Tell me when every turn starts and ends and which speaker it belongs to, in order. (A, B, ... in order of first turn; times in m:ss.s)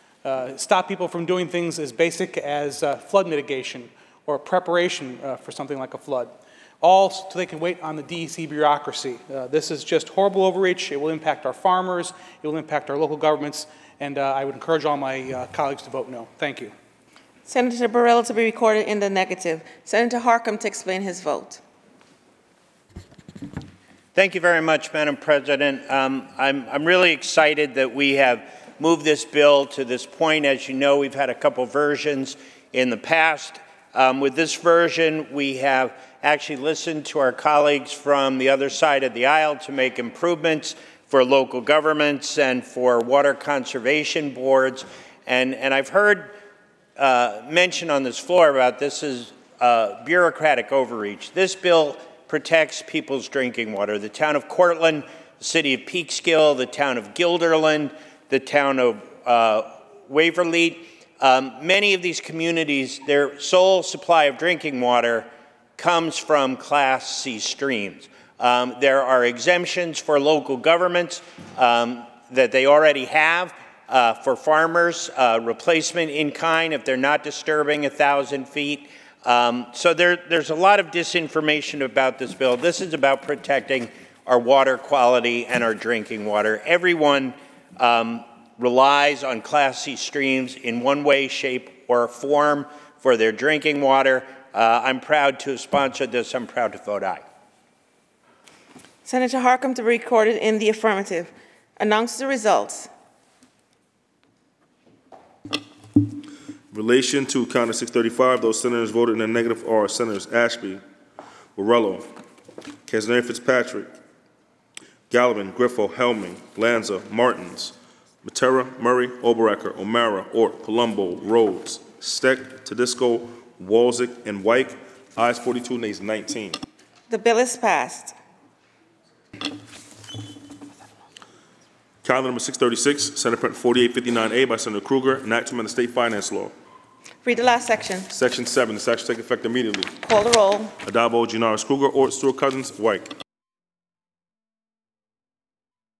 0:00.2-0:16.7 A
0:17.5-0:21.6 B
0:24.1-0:46.3 C
0:47.0-1:37.2 C
1:39.0-1:42.9 B
1:46.7-1:50.8 D
1:51.6-1:52.1 D
1:52.9-1:53.9 D
1:55.1-2:06.6 D
2:07.1-2:08.1 B
2:12.0-2:16.5 D
2:17.2-2:18.1 B
2:18.1-2:20.0 D
2:20.0-2:20.7 B
2:20.8-2:23.1 D